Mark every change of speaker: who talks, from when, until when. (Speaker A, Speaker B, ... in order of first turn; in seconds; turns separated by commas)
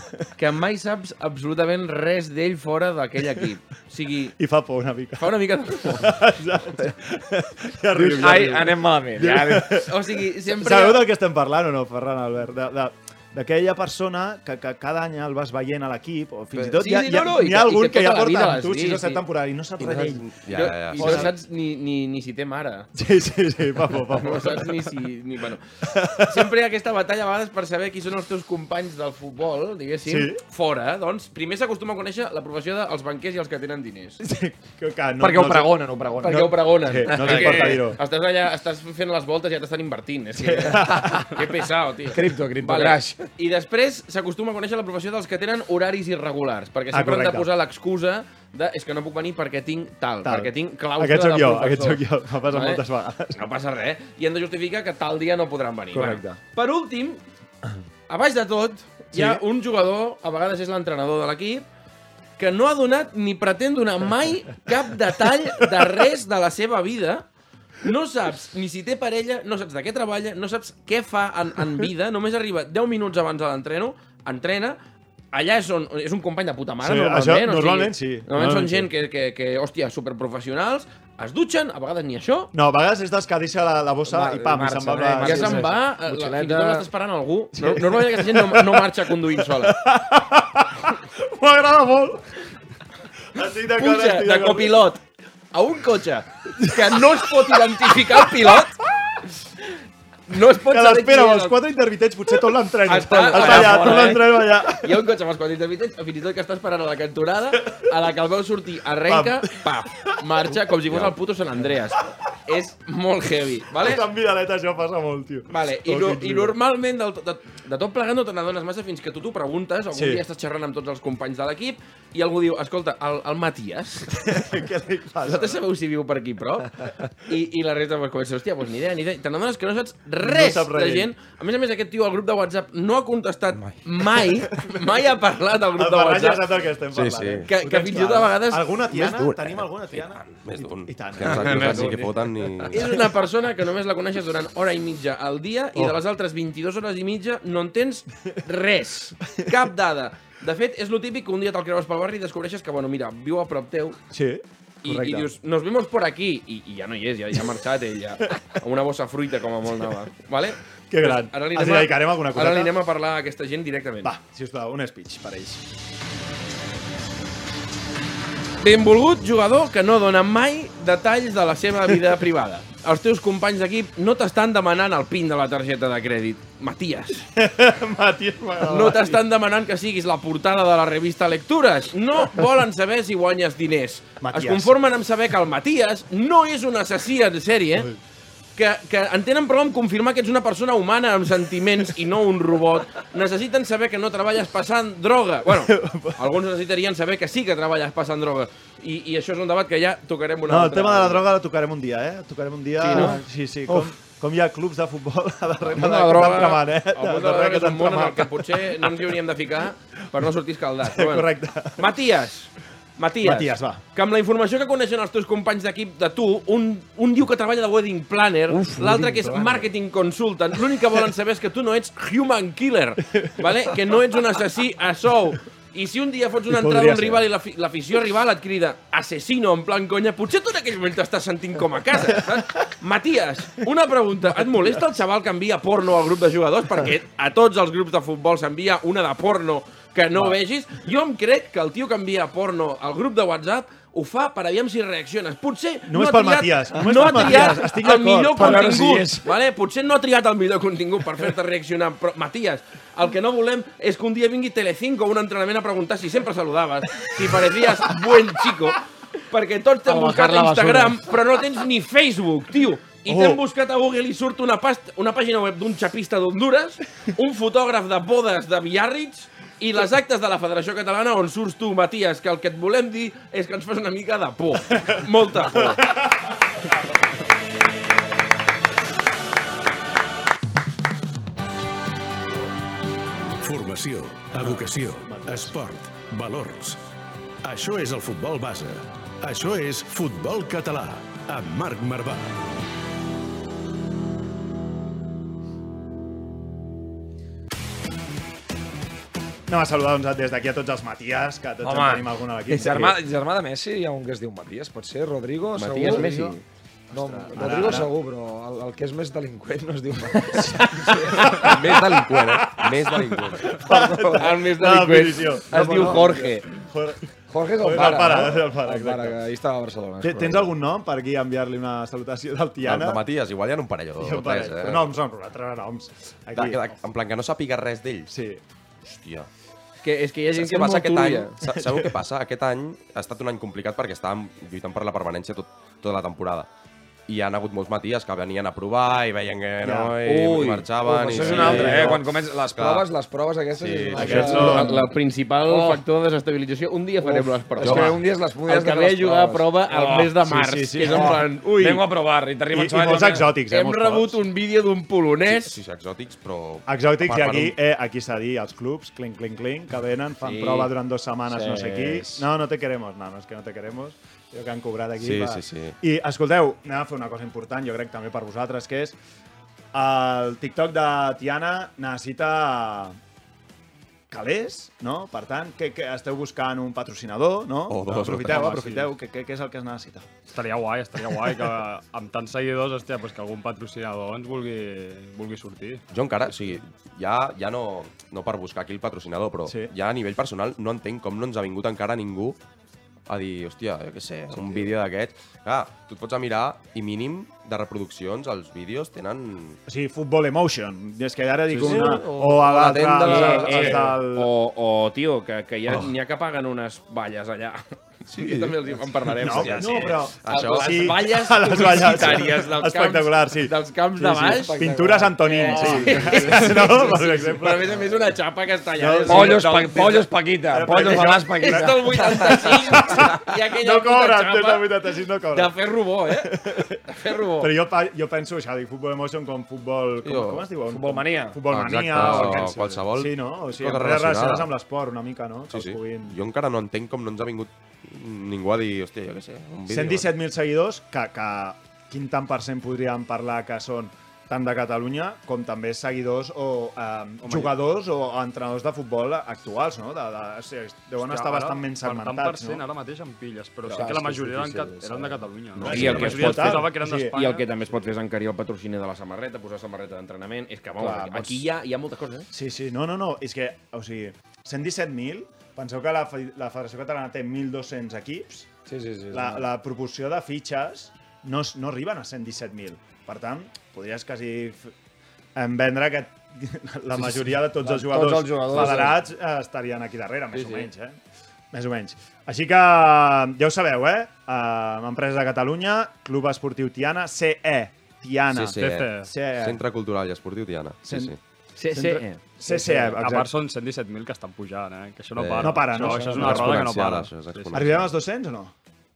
Speaker A: 0.4-4.3, Speaker B: 4.4-20.4, Speaker A: 5.2-6.1, Speaker C: 8.0-9.8, Speaker A: 9.8-11.1, Speaker A: 16.8-19.2, Speaker A: 19.9-22.9, Speaker D: 19.9-21.3, Speaker B: 20.9-21.3, Speaker B: 22.9-24.9, Speaker A: 24.1-25.6, Speaker B: 25.9-26.5, Speaker A: 26.3-34.2, Speaker B: 30.1-30.4, Speaker B: 34.2-38.0, Speaker C: 35.2-37.8, Speaker A: 36.2-52.8, Speaker B: 40.4-41.6, Speaker C: 42.1-43.3, Speaker B: 46.9-47.5, Speaker B: 50.2-53.5, Speaker A: 53.4-57.2, Speaker C: 55.9-56.4, Speaker A: 58.1-61.6, Speaker B: 59.1-59.4, Speaker A: 62.4-67.3, Speaker A: 67.8-74.8, Speaker A: 75.3-82.5, Speaker B: 76.8-78.9, Speaker B: 82.5-85.7, Speaker C: 84.0-86.9, Speaker A: 85.2-89.8, Speaker B: 87.5-92.2, Speaker B: 93.3-94.9, Speaker A: 93.7-98.7, Speaker B: 96.5-98.6, Speaker A: 100.3-101.6, Speaker B: 100.3-105.0, Speaker A: 102.8-114.0, Speaker B: 107.6-107.9, Speaker B: 109.0-110.7, Speaker D: 110.9-111.1, Speaker B: 113.7-116.6, Speaker A: 115.5-124.1, Speaker B: 119.9-120.2, Speaker B: 124.1-125.7, Speaker A: 125.2-136.4, Speaker B: 130.2-131.1, Speaker D: 133.5-133.8, Speaker B: 134.2-134.9, Speaker B: 135.7-142.0, Speaker D: 136.9-137.5, Speaker A: 137.4-138.9, Speaker D: 139.0-142.9, Speaker A: 141.4-142.0, Speaker C: 141.5-142.0, Speaker A: 142.7-154.0, Speaker B: 149.2-149.6, Speaker B: 154.1-155.3, Speaker A: 154.8-164.1, Speaker B: 160.9-162.8, Speaker B: 164.0-165.7, Speaker A: 168.6-177.2, Speaker B: 177.3-179.2, Speaker A: 178.6-187.9, Speaker B: 184.2-184.7, Speaker A: 188.6-201.2, Speaker B: 195.4-196.4, Speaker B: 200.4-209.2, Speaker A: 202.8-203.8, Speaker A: 205.7-275.8, Speaker B: 210.8-211.9, Speaker B: 213.2-213.8, Speaker B: 218.5-219.7, Speaker B: 223.1-223.8, Speaker B: 226.4-227.3, Speaker B: 232.1-232.7, Speaker B: 234.3-234.8, Speaker B: 245.9-248.8, Speaker C: 246.8-247.6, Speaker C: 248.3-249.3, Speaker B: 257.0-258.4, Speaker B: 259.9-260.9, Speaker B: 263.1-263.4, Speaker B: 275.4-276.0, Speaker E: 283.4-286.8, Speaker B: 284.4-285.6, Speaker E: 287.4-292.4, Speaker B: 299.5-303.0, Speaker C: 301.6-306.3, Speaker A: 305.6-306.4, Speaker B: 305.8-306.3, Speaker C: 306.9-311.6, Speaker B: 307.3-307.9, Speaker A: 307.3-307.6, Speaker B: 310.3-317.0, Speaker D: 311.4-313.6, Speaker C: 313.7-314.2, Speaker A: 314.2-316.5, Speaker C: 315.5-316.3, Speaker C: 317.3-320.5, Speaker B: 317.6-319.2, Speaker B: 320.0-323.0, Speaker D: 322.6-324.9, Speaker B: 324.0-326.7, Speaker D: 326.3-328.1, Speaker B: 328.1-328.4, Speaker D: 328.8-329.3, Speaker A: 329.8-331.3, Speaker D: 330.3-336.5, Speaker B: 331.4-332.0, Speaker D: 337.1-342.9, Speaker B: 339.6-340.0, Speaker C: 340.1-344.9, Speaker B: 341.1-342.0, Speaker A: 341.5-341.9, Speaker D: 343.6-344.5, Speaker B: 343.9-344.8, Speaker A: 344.1-351.8, Speaker C: 345.5-345.8, Speaker C: 347.0-350.1, Speaker D: 347.6-347.9, Speaker B: 350.1-351.3, Speaker C: 350.8-353.3, Speaker B: 352.5-354.2, Speaker A: 353.5-355.6, Speaker D: 355.3-357.6, Speaker B: 356.7-368.9, Speaker A: 360.2-360.7, Speaker C: 361.3-362.2, Speaker D: 365.0-365.7, Speaker B: 369.7-373.0, Speaker B: 374.1-380.1, Speaker D: 377.7-378.6, Speaker F: 378.3-378.9, Speaker F: 380.3-385.8, Speaker D: 385.9-392.4, Speaker B: 389.4-389.7, Speaker D: 393.1-399.6, Speaker B: 399.7-404.3, Speaker F: 401.5-402.0, Speaker A: 401.7-402.4, Speaker D: 402.4-403.3, Speaker A: 402.9-414.7, Speaker C: 403.1-403.8, Speaker D: 408.1-411.0, Speaker B: 409.2-418.1, Speaker C: 414.0-416.3, Speaker A: 415.2-420.0, Speaker F: 416.1-416.5, Speaker B: 418.7-425.6, Speaker C: 419.1-422.4, Speaker A: 421.4-424.7, Speaker A: 425.3-426.3, Speaker B: 426.1-426.8, Speaker A: 426.9-427.5, Speaker B: 427.4-436.2, Speaker D: 430.0-430.5, Speaker C: 430.7-431.4, Speaker D: 431.5-434.5, Speaker F: 431.9-432.8, Speaker D: 435.5-440.1, Speaker B: 439.7-452.7, Speaker F: 447.2-447.6, Speaker F: 451.0-457.9, Speaker C: 453.6-455.3, Speaker B: 455.6-457.2, Speaker A: 455.7-456.6, Speaker A: 457.2-462.3, Speaker C: 460.8-461.4, Speaker B: 462.3-468.5, Speaker C: 468.7-469.5, Speaker B: 469.1-474.7, Speaker B: 475.4-481.0, Speaker C: 476.9-479.0, Speaker A: 480.3-480.7, Speaker B: 481.5-489.6, Speaker D: 488.3-491.2, Speaker F: 488.5-489.1, Speaker B: 490.8-491.2, Speaker A: 491.6-492.2, Speaker B: 491.7-493.3, Speaker C: 492.5-492.9, Speaker F: 493.0-497.7, Speaker D: 495.2-497.9, Speaker B: 495.4-496.7, Speaker B: 497.5-498.5